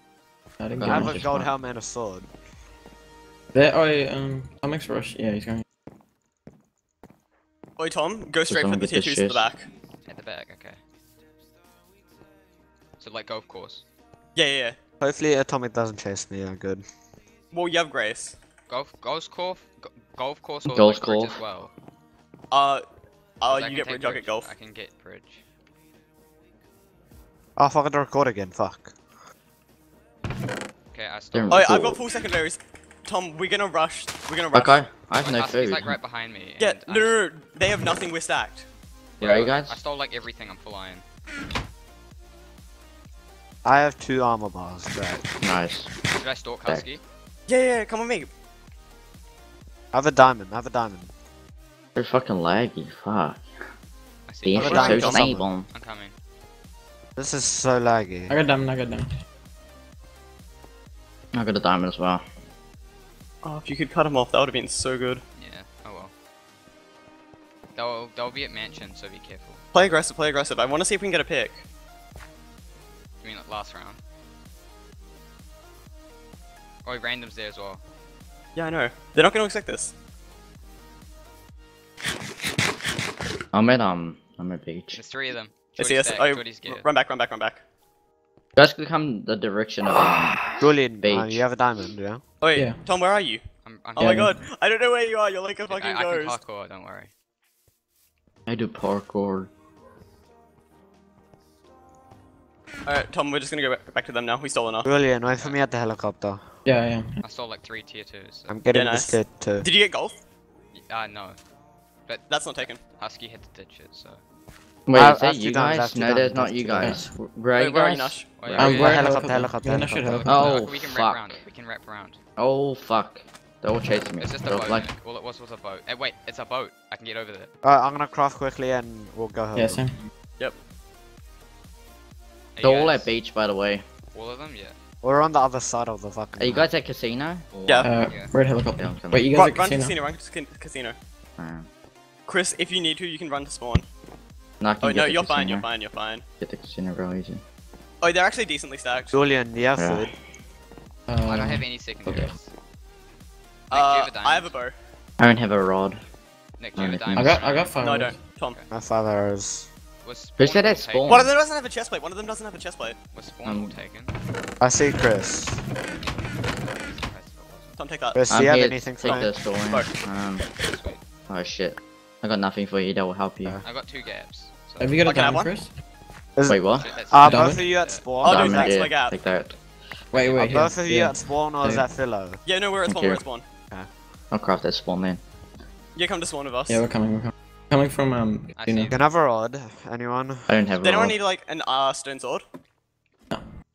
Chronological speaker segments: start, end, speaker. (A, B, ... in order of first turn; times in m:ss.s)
0:00.6-0:01.3 A
0:00.8-0:01.5 B
0:00.9-0:02.3 C
0:03.5-0:05.6 A
0:07.8-0:09.7 D
0:08.5-0:09.5 B
0:10.1-0:10.8 E
0:13.0-0:13.8 E
0:14.4-0:14.8 D
0:15.0-0:16.8 C
0:17.5-0:18.4 D
0:18.7-0:21.7 E
0:20.7-0:21.4 B
0:22.5-0:22.8 D
0:23.4-0:24.5 D
0:23.5-0:25.4 E
0:27.6-0:29.0 C
0:30.9-0:31.7 E
0:31.3-0:32.0 B
0:31.5-0:34.8 D
0:34.5-0:36.0 B
0:35.2-0:37.2 E
0:36.6-0:38.7 D
0:39.2-0:39.8 B
0:39.2-0:41.0 E
0:43.6-0:45.2 C
0:45.4-0:45.9 B
0:46.2-0:47.0 E
0:46.7-0:46.9 B
0:47.5-0:48.3 D
0:49.9-0:51.1 C
0:52.0-0:53.5 B
0:54.3-0:55.2 E
0:54.4-0:55.7 B
0:54.6-0:55.5 C
0:54.7-0:55.3 D
0:55.7-0:56.2 E
0:57.2-0:58.3 C
0:58.3-0:59.1 A
1:01.3-1:02.2 B
1:03.4-1:05.2 D
1:05.4-1:06.1 E
1:07.8-1:09.6 E
1:09.7-1:11.6 D
1:13.2-1:14.0 E
1:16.8-1:17.8 E
1:18.6-1:19.9 D
1:23.5-1:25.0 B
1:24.9-1:26.8 E
1:25.8-1:27.6 D
1:28.6-1:30.5 B
1:30.6-1:32.2 C
1:31.0-1:31.4 B
1:32.4-1:33.4 D
1:32.5-1:32.8 A
1:33.6-1:34.2 E
1:34.0-1:36.4 D
1:34.0-1:34.3 A
1:35.7-1:37.1 E
1:38.5-1:39.5 B
1:42.9-1:44.9 D
1:44.8-1:46.4 C
1:46.6-1:47.2 A
1:47.2-1:48.6 E
1:48.5-1:49.7 C
1:48.7-1:50.2 D
1:50.7-1:51.4 E
1:52.1-1:54.2 E
1:52.3-1:52.8 D
1:54.9-1:58.8 B
1:55.0-1:57.0 C
1:56.8-1:57.1 A
1:57.6-1:58.3 D
1:58.4-1:59.1 E
1:58.6-2:00.6 A
1:58.7-2:00.3 C
2:00.1-2:02.2 E
2:00.3-2:01.4 B
2:02.4-2:04.9 B
2:04.2-2:07.5 E
2:07.6-2:09.8 C
2:09.5-2:10.0 A
2:12.6-2:13.1 E
2:12.6-2:13.8 B
2:14.1-2:14.8 E
2:15.0-2:16.7 C
2:16.4-2:17.9 B
2:17.6-2:17.9 D
2:17.8-2:20.0 A
2:18.1-2:18.3 E
2:18.8-2:19.3 B
2:19.3-2:21.0 D
2:21.4-2:21.7 B
2:22.3-2:23.9 D
2:24.6-2:25.7 B
2:24.8-2:26.2 D
2:26.4-2:27.4 B
2:28.0-2:29.1 D
2:29.1-2:30.1 C
2:29.8-2:30.1 B
2:31.1-2:32.3 A
2:31.2-2:32.5 E
2:33.7-2:34.8 D
2:33.7-2:34.5 E
2:35.2-2:36.0 B
2:36.6-2:37.8 E
2:36.8-2:37.4 B
2:37.1-2:38.2 A
2:37.8-2:38.6 D
2:38.7-2:39.7 C
2:40.0-2:41.3 E
2:40.4-2:41.3 B
2:41.1-2:43.0 D
2:43.1-2:44.1 E
2:43.4-2:43.8 B
2:44.6-2:45.6 C
2:45.9-2:47.8 E
2:47.8-2:48.2 D
2:48.1-2:49.3 C
2:48.3-2:50.4 B
2:49.0-2:49.9 D
2:50.6-2:51.0 E
2:51.3-2:53.6 B
2:53.6-2:54.9 E
2:54.8-2:55.7 A
2:55.0-2:55.5 D
2:56.4-2:58.8 C
2:56.5-2:56.9 B
2:56.8-2:58.0 E
2:57.2-2:57.6 A
2:58.2-2:59.6 B
2:58.2-2:59.2 D
3:00.1-3:00.7 E
3:00.1-3:01.9 A
3:00.5-3:02.4 C
3:02.4-3:03.5 D
3:02.9-3:03.2 B
3:04.3-3:05.2 B
3:06.0-3:06.8 D
3:06.7-3:08.9 A
3:08.6-3:09.0 E
3:08.9-3:10.5 C
3:10.5-3:11.2 B
3:10.7-3:12.4 D